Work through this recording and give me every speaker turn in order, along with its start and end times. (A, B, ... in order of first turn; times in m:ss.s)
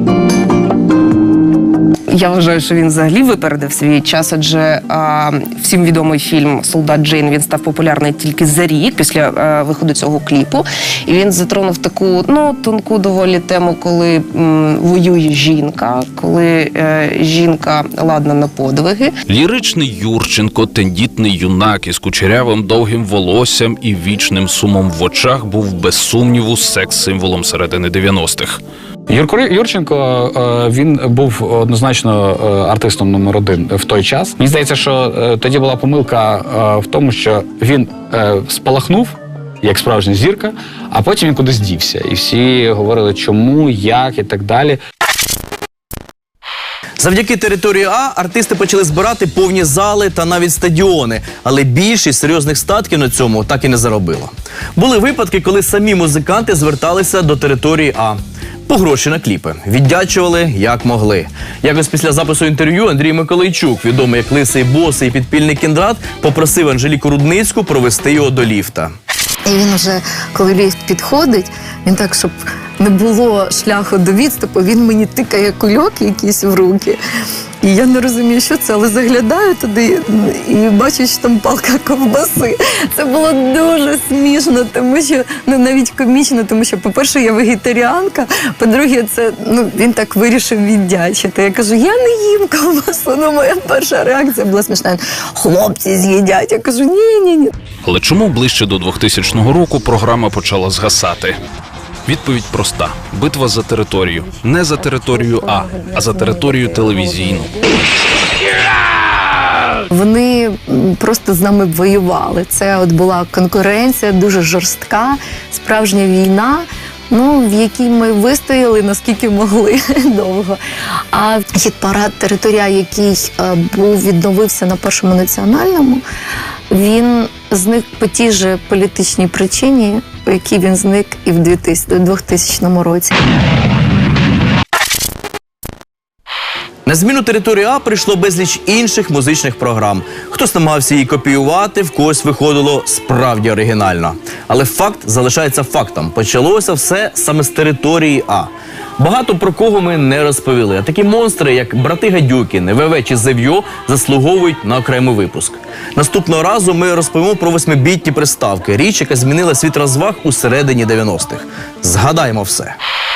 0:02.1-0:19.1 A
0:19.3-0:28.6 B
0:29.1-0:44.8 C
0:47.0-0:58.2 D
0:58.7-1:09.0 D
1:09.5-1:17.0 E
1:17.6-1:37.5 E
1:37.8-1:41.4 B
1:42.1-1:47.5 B
1:44.6-1:47.8 E
1:49.9-2:00.6 E
2:01.1-2:06.0 E
2:06.7-2:13.2 E
2:16.9-2:42.8 D